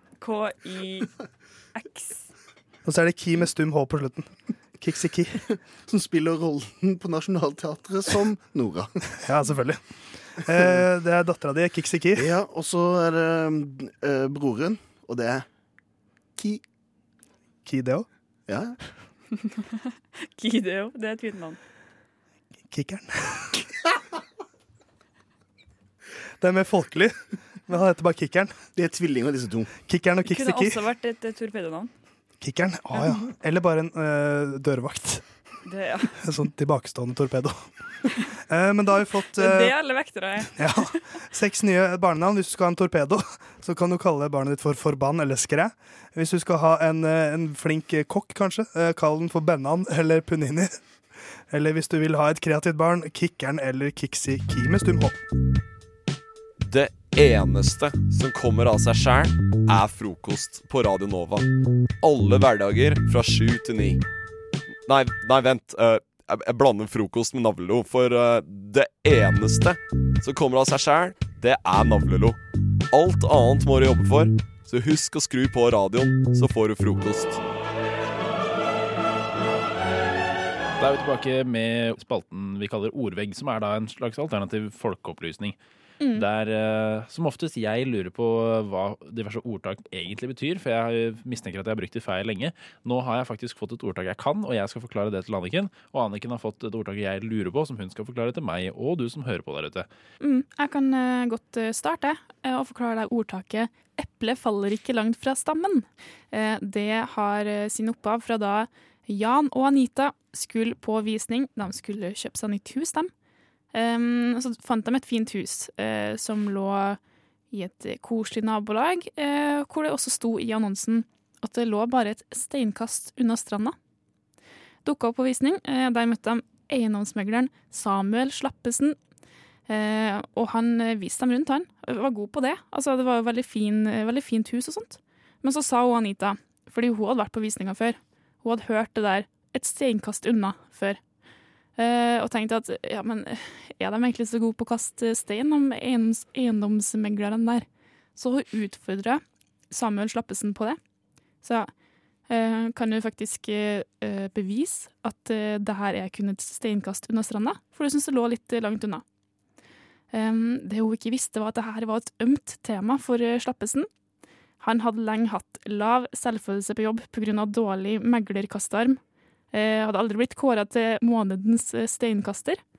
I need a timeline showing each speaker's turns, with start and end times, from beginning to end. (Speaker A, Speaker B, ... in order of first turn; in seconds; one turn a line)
Speaker A: 0.2-1.1
Speaker A: 1.7-2.3
Speaker B: 2.8-5.4
Speaker C: 5.9-8.9
Speaker B: 9.2-9.8
Speaker B: 10.4-12.3
Speaker C: 12.2-15.4
Speaker C: 16.4-16.6
Speaker B: 17.6-18.1
Speaker C: 18.5-18.8
Speaker A: 19.4-21.6
Speaker B: 22.7-23.6
Speaker B: 26.4-27.1
Speaker B: 27.7-28.6
Speaker C: 28.8-29.7
Speaker B: 29.8-30.8
Speaker A: 30.2-31.9
Speaker B: 32.4-35.2
Speaker A: 35.6-36.1
Speaker B: 36.2-37.5
Speaker B: 38.4-39.8
Speaker A: 39.4-40.6
Speaker B: 40.5-50.8
Speaker B: 51.5-55.2
Speaker D: 56.6-61.5
Speaker D: 62.0-64.0
Speaker D: 64.8-72.4
Speaker D: 72.9-77.4
Speaker E: 80.8-85.6
Speaker F: 86.0-86.2
Speaker E: 86.1-99.9
Speaker F: 100.2-113.1
Speaker F: 113.7-117.0
Speaker F: 117.5-123.8
Speaker F: 124.8-129.0
Speaker F: 129.7-141.0
Speaker F: 141.8-150.8
Speaker F: 151.4-151.7
Speaker F: 152.3-159.0
Speaker F: 160.1-163.9
Speaker F: 164.6-169.0
Speaker F: 169.5-172.6